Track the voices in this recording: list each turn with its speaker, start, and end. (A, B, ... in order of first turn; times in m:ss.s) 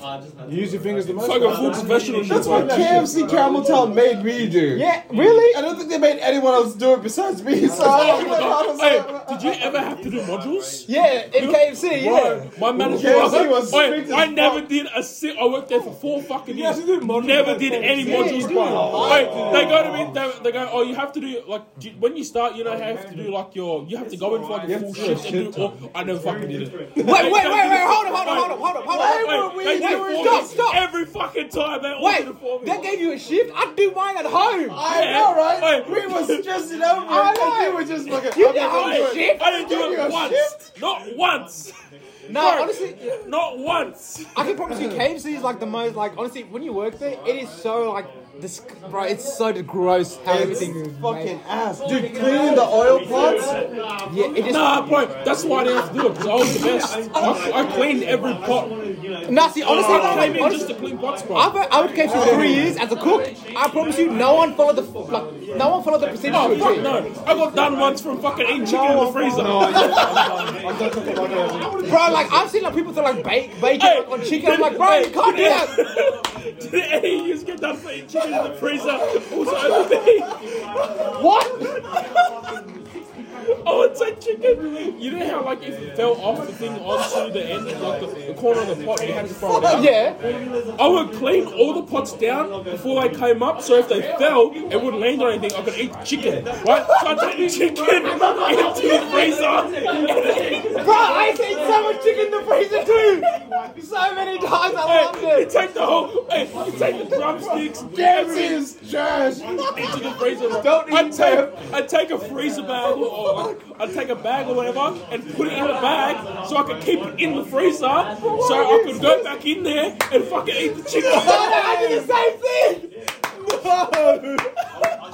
0:00.4-0:03.2 A
0:01.2-0:03.1 B
0:02.2-0:04.9 C
0:04.7-0:05.6 D
0:05.4-0:09.7 C
0:07.6-0:08.5 A
0:07.8-0:11.6 B
0:10.9-0:12.5 D
0:12.0-0:13.6 A
0:12.2-0:32.9 B
0:12.7-0:14.6 C
0:16.4-0:20.2 A
0:18.0-0:18.9 D
0:18.3-0:20.0 C
0:24.6-0:25.7 C
0:27.0-0:30.8 D
0:28.9-0:30.5 C
0:32.0-0:34.8 D
0:34.7-0:40.6 C
0:34.8-0:36.4 B
0:37.1-0:39.8 D
0:38.4-0:41.7 B
0:42.3-0:43.2 D
0:42.3-0:44.5 B
0:44.4-0:51.3 D
0:50.2-0:53.6 C
0:54.1-0:54.8 D
0:54.4-0:58.7 B
0:56.4-0:57.5 D
0:59.3-1:00.7 D
0:59.6-1:01.5 B
1:01.3-1:07.0 D
1:02.1-1:02.8 A
1:02.1-1:02.6 C
1:06.3-1:10.2 B
1:08.6-1:11.9 A
1:08.8-1:11.7 C
1:11.6-1:15.7 D
1:13.7-1:21.2 B
1:21.1-1:21.7 D
1:23.6-1:30.0 B
1:29.5-1:29.8 C
1:29.6-1:30.2 D
1:30.8-1:41.2 B
1:38.1-1:39.2 D
1:40.7-1:45.5 D
1:44.7-1:48.7 B
1:47.9-1:49.4 C
1:48.4-1:49.7 A
1:49.7-2:01.6 B
1:50.6-1:51.5 C
1:58.4-1:59.2 A
2:01.0-2:02.1 A
2:01.1-2:02.9 D
2:03.4-2:04.4 A